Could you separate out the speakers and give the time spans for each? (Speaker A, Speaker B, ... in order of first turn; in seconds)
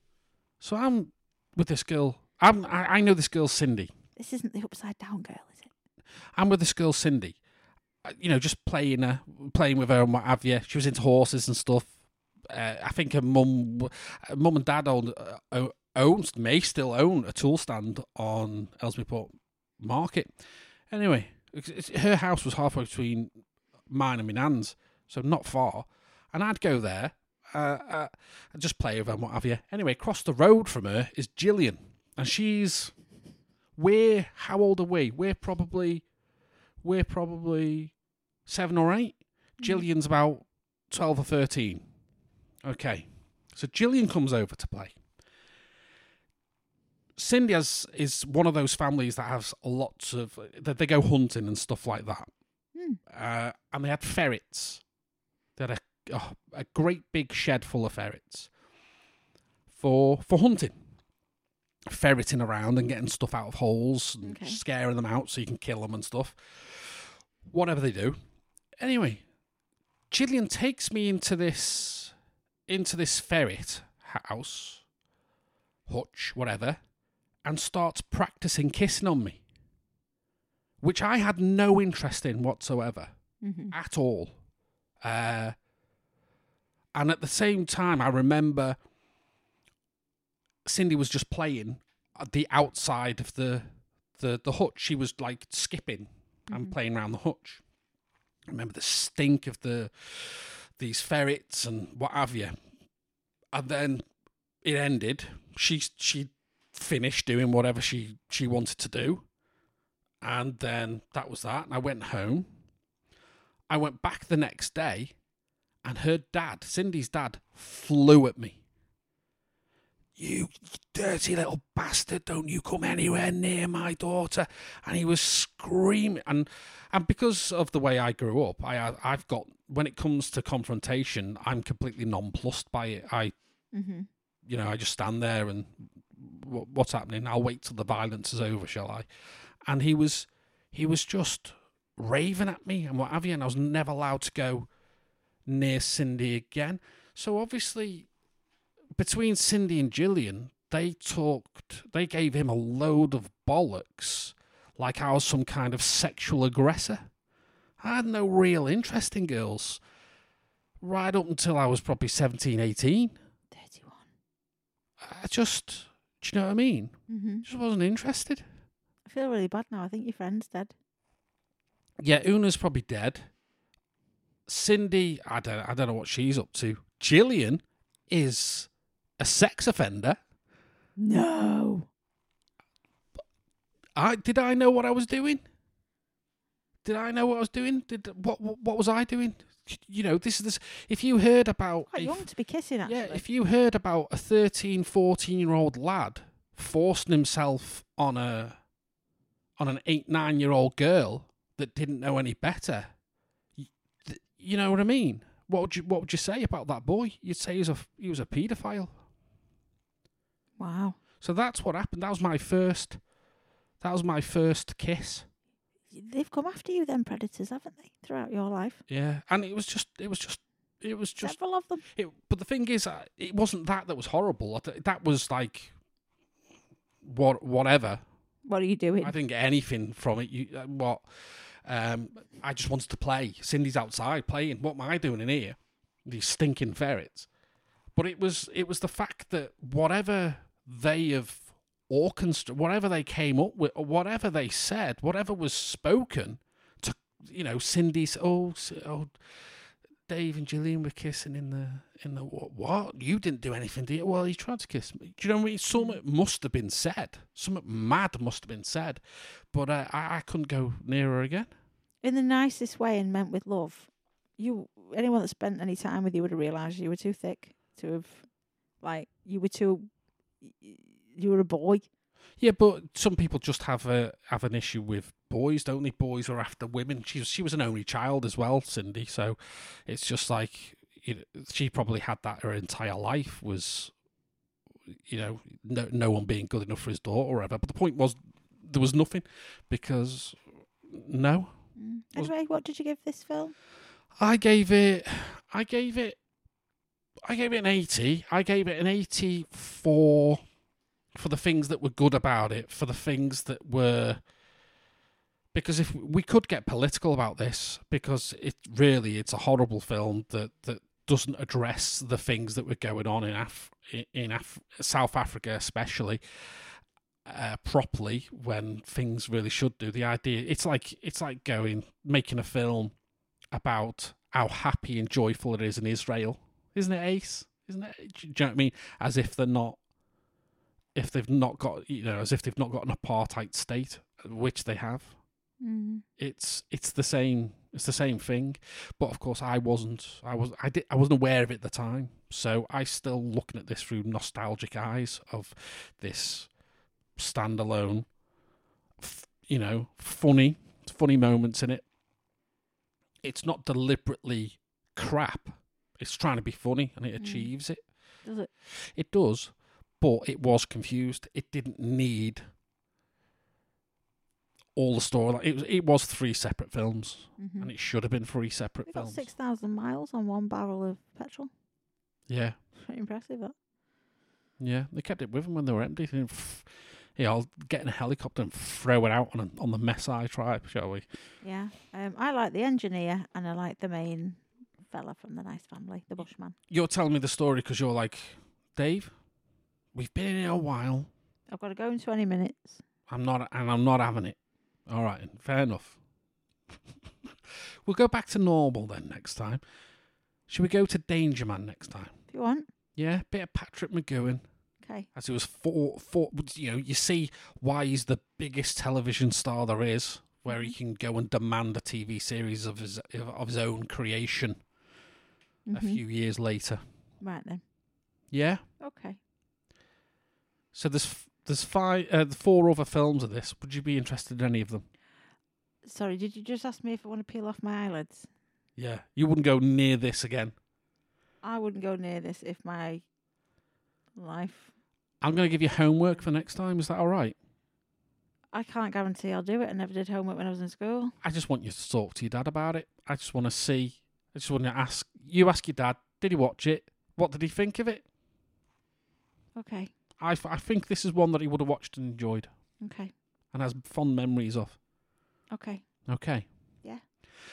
Speaker A: 0.6-3.9, 6.3-7.4, 8.0-11.9, 12.5-20.3, 20.9-23.3, 23.9-32.9, 33.8-36.0, 36.8-37.9, 38.5-41.8, 42.6-44.9, 47.1-52.3, 53.1-54.8, 55.6-58.5, 59.7-60.8, 61.9-68.2, 68.8-69.2, 70.1-72.1, 72.7-74.8, 75.9-76.8, 77.4-79.4, 80.8-83.1, 83.7-84.3, 85.0-85.5, 86.9-88.8, 90.6-97.6, 98.5-102.5, 103.5-104.0, 104.6-109.2, 110.2-112.5, 113.7-115.1, 115.8-118.6, 120.2-133.3, 134.4-139.1, 139.7-144.7, 145.4-148.1, 148.9-157.1, 157.8-159.8, 160.8-163.2, 165.0-168.4, 172.0-173.3, 174.5-180.2, 183.9-185.4, 186.8-192.2, 192.8-198.6, 199.6-202.9, 203.6-209.0, 211.2-213.0, 213.8-215.3, 218.9-221.3, 221.9-225.7, 227.0-228.0, 229.0-231.0, 231.6-237.3, 237.9-249.1, 250.1-259.0, 259.5-261.5, 272.4-283.9, 284.9-291.5, 294.2-296.2, 297.2-300.4, 301.1-304.2, 305.5-316.2, 317.2-322.9, 323.5-329.8, 330.9-335.1, 336.2-346.5, 347.1-348.1, 349.0-351.8, 353.2-357.8, 358.6-362.4, 364.8-369.3, 372.3-372.6, 374.6-381.1, 386.7-389.1, 389.9-391.1, 393.1-396.0, 397.3-399.6, 400.5-402.1, 402.9-404.4, 405.1-414.6, 415.7-416.8, 418.3-418.6, 420.7-424.8, 428.8-430.5, 435.2-437.4, 441.2-448.0, 450.2-452.5, 453.5-454.8, 456.1-456.4
Speaker B: 4.2-5.7, 39.6-39.9, 52.7-53.0, 64.2-64.6, 83.4-83.7, 96.5-96.8, 133.7-134.1, 163.5-164.1, 167.1-167.4, 169.1-170.7, 181.0-181.9, 191.9-193.2, 210.6-211.0, 215.9-218.8, 221.2-221.8, 228.5-229.1, 262.0-268.2, 268.8-269.9, 270.4-271.8, 291.8-293.5, 335.6-336.0, 357.2-357.5, 358.2-358.5, 367.4-367.7, 368.9-371.5, 372.8-373.5, 381.4-386.6, 391.5-392.8, 402.3-402.7, 404.8-405.1, 410.5-410.7, 415.7-416.0, 417.2-417.6, 418.8-419.2, 425.8-428.3, 431.4-433.0, 434.2-434.7, 438.5-441.1, 449.6-449.9, 452.8-453.1, 455.5-455.8